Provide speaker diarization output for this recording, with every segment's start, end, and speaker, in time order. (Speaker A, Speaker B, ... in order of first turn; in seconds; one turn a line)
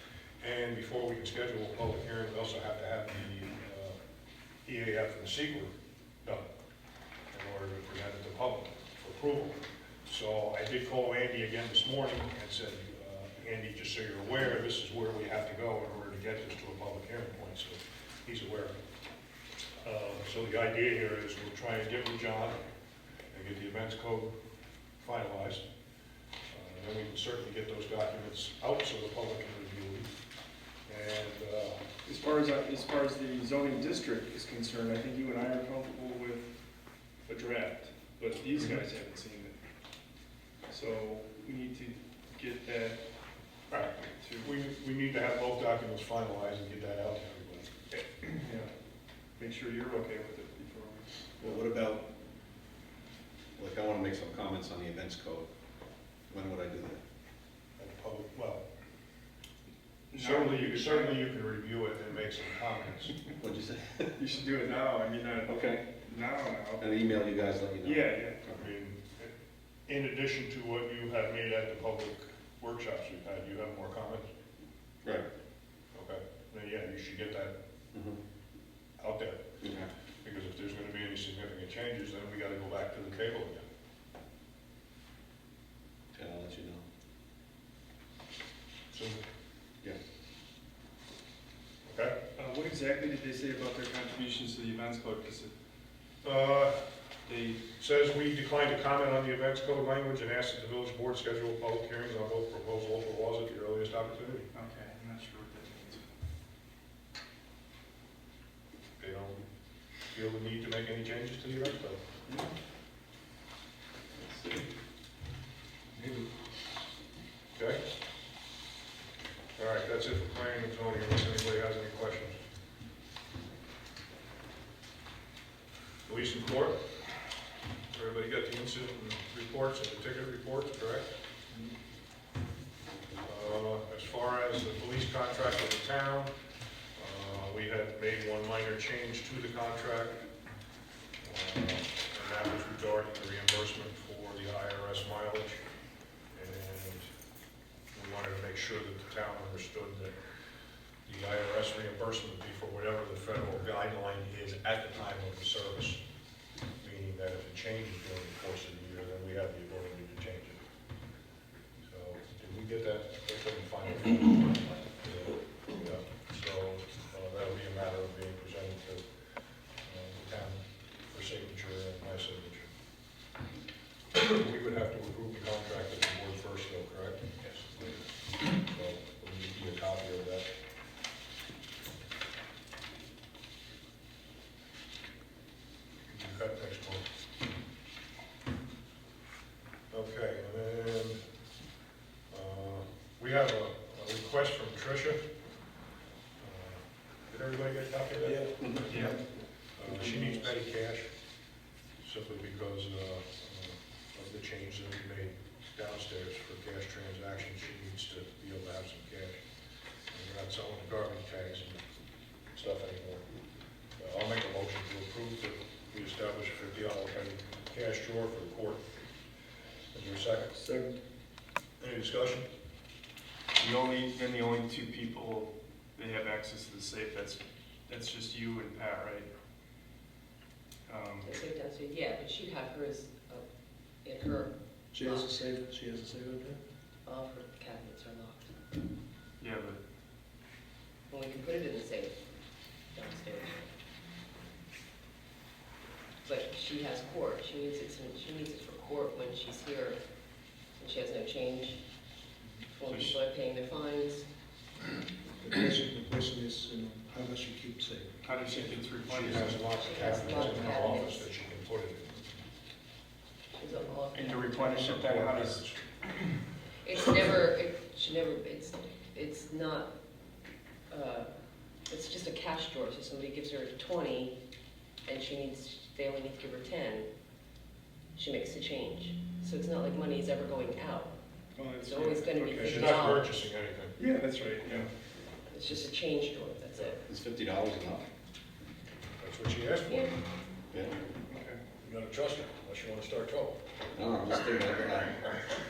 Speaker A: 0.4-4.0
Speaker A: 4.6-5.7
Speaker A: 7.3-18.8
Speaker A: 19.8-22.6
Speaker A: 23.3-24.3
Speaker A: 25.0-25.6
Speaker A: 26.5-30.1
Speaker A: 30.9-31.8
Speaker B: 32.0-36.5
Speaker B: 37.3-39.5
Speaker B: 40.7-43.0
Speaker A: 43.7-47.7
Speaker B: 44.0-44.5
Speaker B: 47.9-48.7
Speaker B: 49.4-51.4
Speaker C: 51.4-52.1
Speaker C: 53.5-55.5
Speaker C: 56.3-57.0
Speaker A: 57.8-58.6
Speaker B: 60.1-61.2
Speaker A: 60.1-63.1
Speaker C: 63.4-64.2
Speaker B: 64.2-66.9
Speaker C: 65.4-65.9
Speaker C: 66.8-68.0
Speaker B: 67.8-68.4
Speaker A: 68.5-69.3
Speaker A: 69.9-74.3
Speaker A: 75.9-77.5
Speaker C: 77.9-78.2
Speaker A: 79.0-79.4
Speaker C: 79.6-79.9
Speaker A: 80.2-83.6
Speaker C: 86.1-86.8
Speaker A: 88.9-89.2
Speaker A: 91.8-92.2
Speaker B: 92.3-95.5
Speaker A: 96.2-96.8
Speaker B: 97.3-97.6
Speaker A: 97.7-104.5
Speaker B: 104.5-106.1
Speaker A: 109.0-109.4
Speaker A: 110.1-112.0
Speaker A: 117.5-117.8
Speaker A: 119.6-122.4
Speaker A: 126.0-126.8
Speaker A: 127.9-131.1
Speaker A: 133.2-136.3
Speaker A: 136.9-140.2
Speaker A: 141.2-145.6
Speaker A: 146.3-147.1
Speaker A: 147.9-150.2
Speaker A: 151.0-156.0
Speaker A: 156.8-160.6
Speaker A: 161.8-169.0
Speaker A: 169.8-172.7
Speaker A: 174.1-180.5
Speaker A: 186.1-187.1
Speaker A: 189.9-191.2
Speaker A: 192.3-195.2
Speaker A: 196.4-199.1
Speaker C: 198.6-198.9
Speaker B: 198.8-199.2
Speaker A: 199.8-201.1
Speaker A: 202.0-209.4
Speaker A: 210.1-211.8
Speaker A: 212.5-213.2
Speaker A: 214.0-218.8
Speaker A: 219.9-220.6
Speaker D: 220.6-221.0
Speaker A: 221.8-222.5
Speaker B: 223.6-229.3
Speaker B: 230.9-231.3
Speaker E: 231.2-233.4
Speaker E: 234.0-235.3
Speaker D: 235.0-236.6
Speaker E: 237.0-238.5
Speaker B: 239.4-239.8
Speaker E: 241.1-242.2
Speaker E: 242.9-243.7
Speaker E: 246.2-250.0
Speaker E: 250.8-251.8
Speaker E: 252.7-254.2
Speaker B: 252.8-253.2
Speaker D: 255.4-258.2
Speaker B: 258.2-259.7
Speaker A: 259.0-262.2
Speaker E: 259.7-261.3
Speaker E: 263.5-264.9
Speaker B: 264.1-265.6
Speaker A: 264.6-265.8
Speaker E: 266.8-269.9
Speaker E: 270.9-271.3
Speaker E: 271.9-274.4
Speaker E: 275.1-277.1
Speaker E: 278.1-281.1
Speaker B: 281.6-283.2
Speaker E: 281.8-283.3
Speaker A: 282.6-283.9
Speaker B: 284.0-284.9
Speaker E: 285.5-287.0
Speaker C: 287.0-288.1
Speaker A: 289.2-290.1
Speaker C: 290.7-291.0
Speaker B: 291.3-291.6
Speaker A: 291.8-293.6
Speaker C: 293.9-295.2